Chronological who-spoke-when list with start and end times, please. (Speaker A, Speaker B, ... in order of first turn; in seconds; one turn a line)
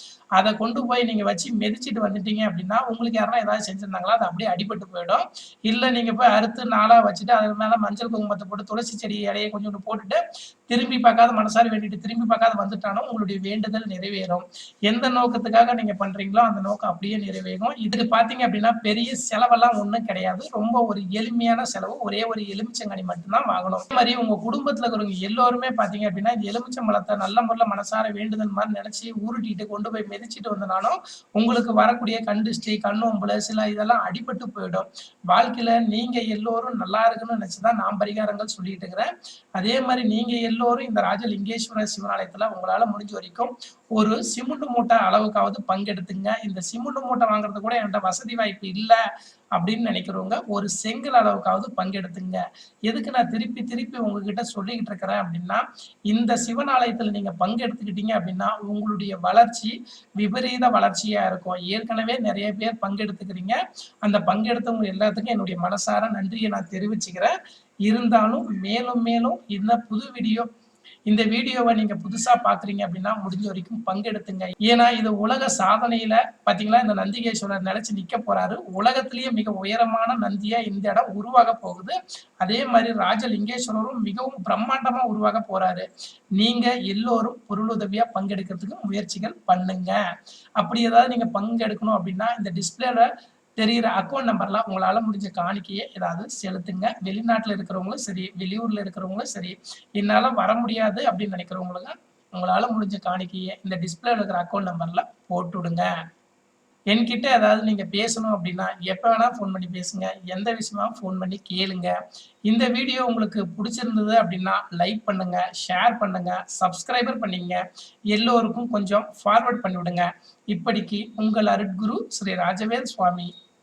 Speaker A: 0.3-49.0
Speaker A: 49.5-67.3
Speaker A: 67.8-70.5
Speaker A: 71.1-90.0
Speaker A: 90.6-105.9
Speaker A: 106.9-123.3